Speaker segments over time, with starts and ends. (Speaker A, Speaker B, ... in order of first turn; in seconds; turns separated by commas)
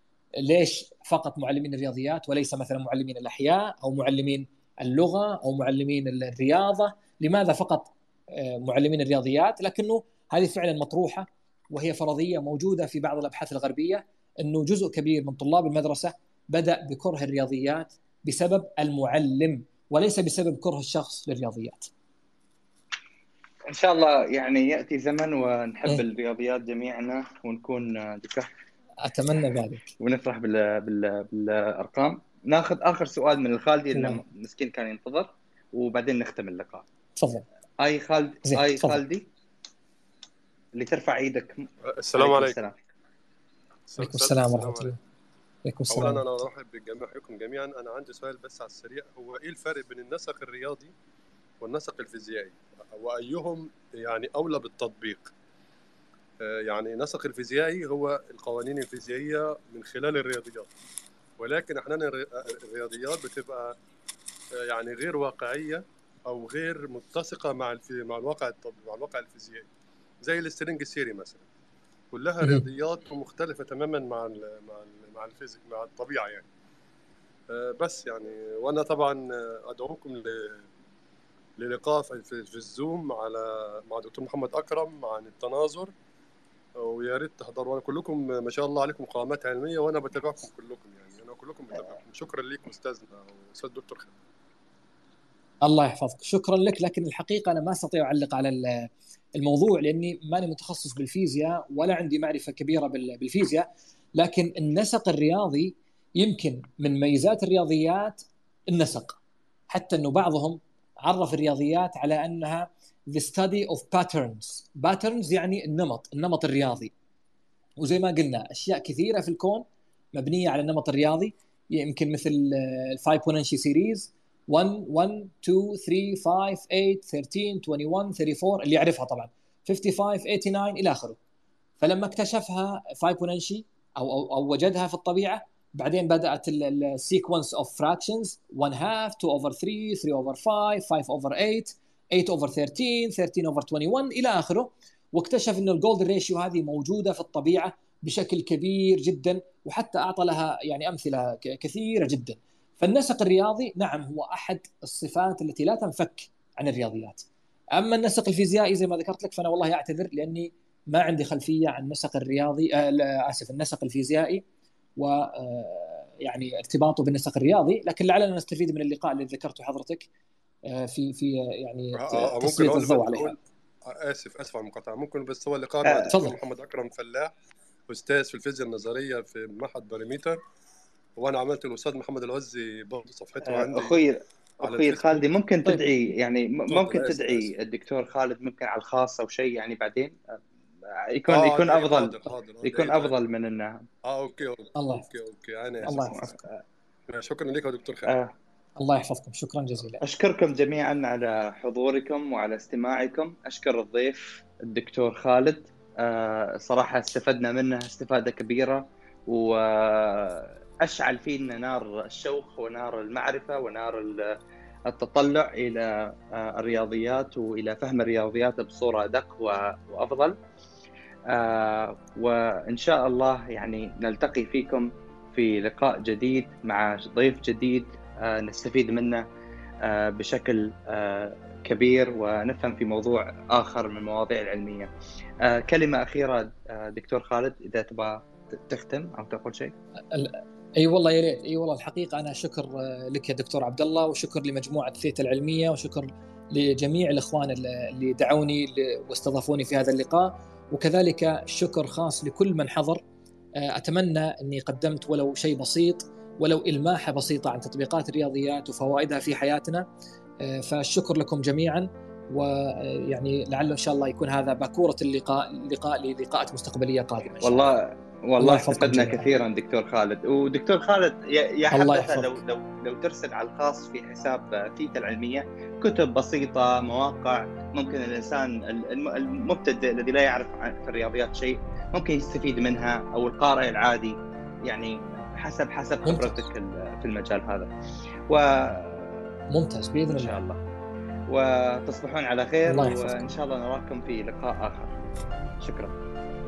Speaker A: 0.4-21.9, Speaker B: 23.6-28.5, Speaker A: 29.0-29.9, Speaker B: 30.0-36.8, Speaker A: 33.9-34.2, Speaker A: 37.2-37.4, Speaker B: 37.8-39.3, Speaker A: 38.5-39.0, Speaker B: 40.8-42.8, Speaker C: 41.9-42.5, Speaker C: 43.9-44.9, Speaker A: 44.0-45.0, Speaker A: 45.6-46.4, Speaker C: 45.9-50.9, Speaker C: 51.6-55.3, Speaker C: 56.4-60.7, Speaker C: 61.4-63.7, Speaker C: 64.7-69.7, Speaker C: 70.2-71.5, Speaker C: 72.1-76.5, Speaker C: 77.5-80.7, Speaker C: 81.6-85.9, Speaker C: 86.8-94.1, Speaker A: 95.6-109.2, Speaker A: 109.7-116.9, Speaker A: 117.8-131.2, Speaker A: 131.8-164.4, Speaker A: 165.0-170.1, Speaker A: 170.7-173.4, Speaker C: 171.9-177.3, Speaker A: 176.1-176.4, Speaker C: 177.9-180.4, Speaker C: 181.2-184.0, Speaker B: 183.4-190.4, Speaker C: 184.6-185.2, Speaker C: 186.7-187.5, Speaker B: 190.9-193.8, Speaker C: 191.3-193.1, Speaker C: 194.1-196.3, Speaker A: 194.7-195.1, Speaker A: 195.8-196.4, Speaker C: 197.1-198.1, Speaker A: 198.8-200.0, Speaker B: 200.0-214.3, Speaker B: 214.9-220.3, Speaker B: 221.3-229.2, Speaker B: 229.8-234.9, Speaker B: 235.4-239.7, Speaker A: 240.1-253.0, Speaker A: 253.6-259.9, Speaker A: 260.4-267.7, Speaker B: 267.4-287.7, Speaker A: 268.4-269.3, Speaker A: 271.7-272.4, Speaker A: 286.0-286.4, Speaker B: 288.3-289.3, Speaker A: 289.5-290.3, Speaker B: 290.1-290.6, Speaker B: 291.3-294.9, Speaker A: 292.6-293.3, Speaker B: 295.6-295.9